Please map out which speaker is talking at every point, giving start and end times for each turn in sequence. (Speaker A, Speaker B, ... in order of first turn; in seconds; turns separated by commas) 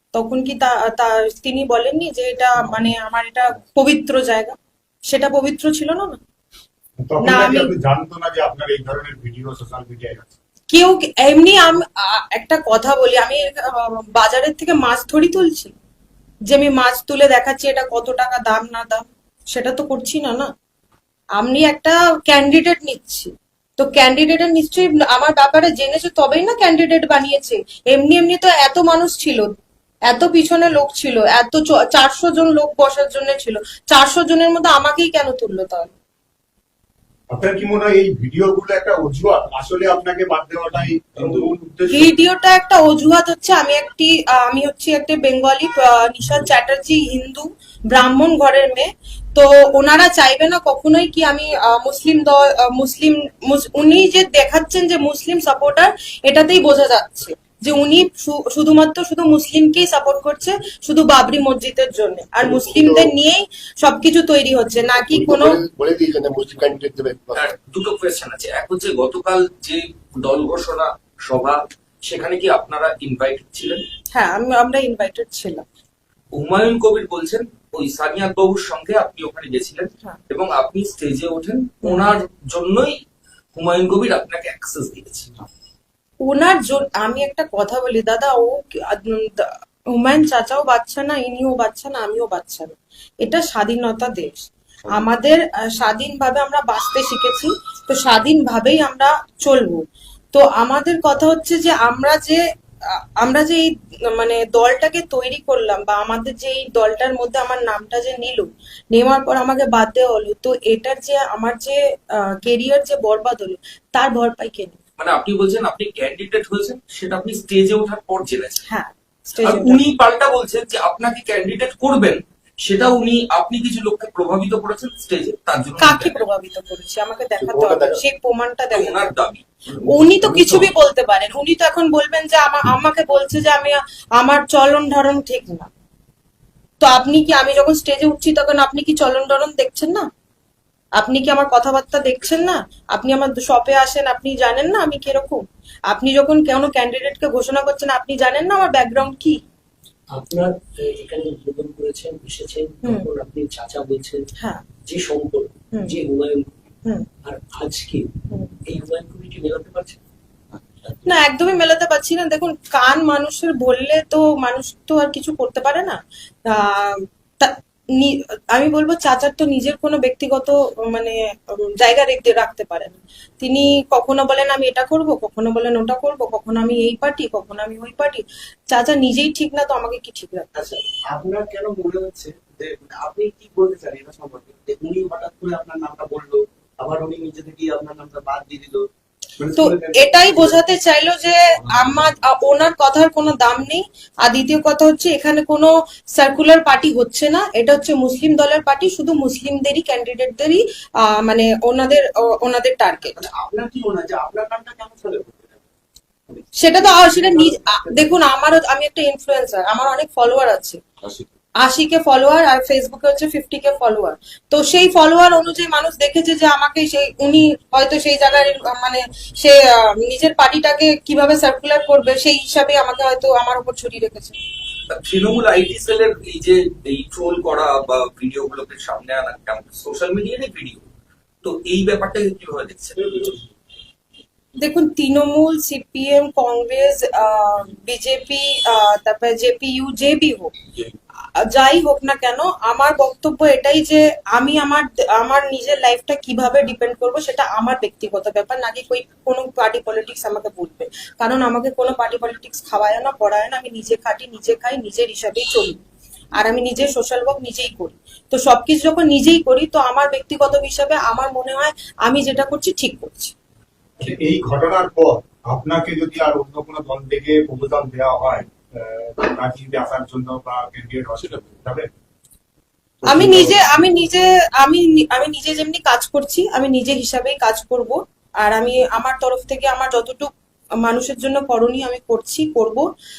Speaker A: 0.1-4.6, Speaker A: 5.1-6.2, Speaker B: 7.0-10.3, Speaker A: 7.2-7.7, Speaker A: 10.7-15.7, Speaker A: 16.5-20.5, Speaker A: 21.4-29.5, Speaker A: 30.1-35.9, Speaker B: 37.3-42.1, Speaker A: 41.9-65.6, Speaker C: 62.4-63.1, Speaker C: 65.0-67.5, Speaker D: 67.3-73.8, Speaker A: 74.1-75.7, Speaker D: 76.3-83.0, Speaker A: 81.8-82.1, Speaker D: 83.5-85.3, Speaker A: 86.2-99.8, Speaker A: 100.3-102.4, Speaker A: 103.2-114.8, Speaker D: 115.0-118.6, Speaker A: 118.7-119.8, Speaker D: 119.4-126.2, Speaker A: 125.8-129.0, Speaker C: 127.4-128.0, Speaker D: 128.7-130.7, Speaker A: 129.9-135.7, Speaker A: 136.8-140.1, Speaker A: 141.0-149.4, Speaker E: 150.1-154.3, Speaker A: 152.8-153.1, Speaker A: 154.4-154.7, Speaker E: 154.8-156.6, Speaker E: 157.2-158.1, Speaker E: 158.7-160.0, Speaker A: 161.1-180.5, Speaker F: 180.6-188.9, Speaker F: 189.4-190.6, Speaker A: 189.6-203.2, Speaker F: 203.1-205.6, Speaker F: 206.3-208.1, Speaker A: 206.6-210.8, Speaker A: 211.6-224.4, Speaker D: 224.9-230.9, Speaker D: 231.4-233.2, Speaker A: 234.6-240.5, Speaker A: 241.5-255.8, Speaker A: 256.4-263.3, Speaker B: 264.0-271.9, Speaker C: 271.2-271.5, Speaker A: 273.1-280.3, Speaker B: 273.1-273.6, Speaker A: 280.8-282.9